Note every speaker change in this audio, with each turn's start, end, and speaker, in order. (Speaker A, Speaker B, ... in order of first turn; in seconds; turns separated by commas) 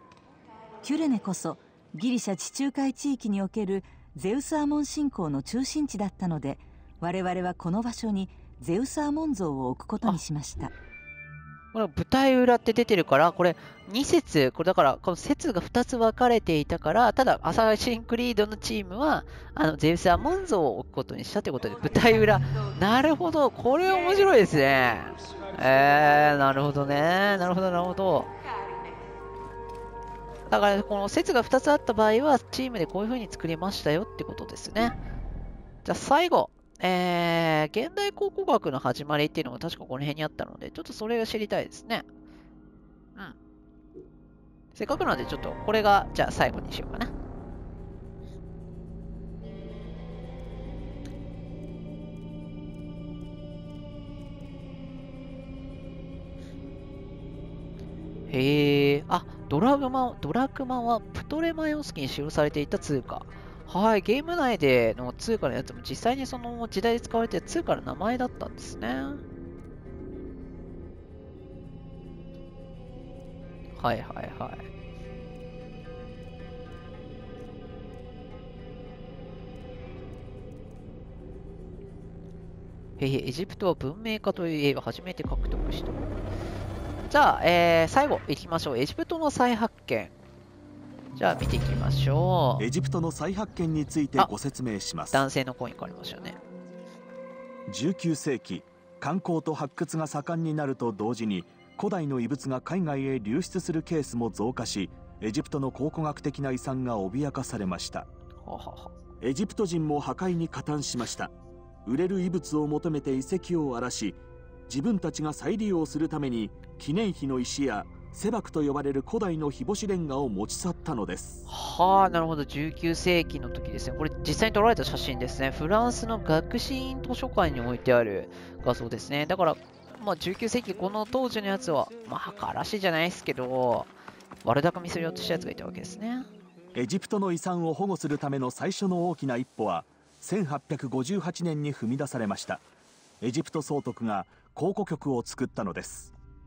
Speaker A: 0.8-10.7, Speaker B: 11.7-28.3, Speaker B: 30.5-35.0, Speaker B: 35.9-42.1, Speaker B: 44.8-47.1, Speaker B: 58.3-69.2, Speaker B: 73.8-74.7, Speaker B: 83.0-86.0, Speaker B: 87.1-90.1, Speaker B: 91.2-92.7, Speaker C: 92.6-95.2, Speaker B: 95.1-96.4, Speaker C: 97.7-108.1, Speaker B: 108.4-108.9, Speaker C: 109.2-111.3, Speaker C: 111.9-121.5, Speaker B: 121.5-133.9, Speaker B: 134.4-136.3, Speaker C: 136.8-142.6, Speaker C: 143.2-146.1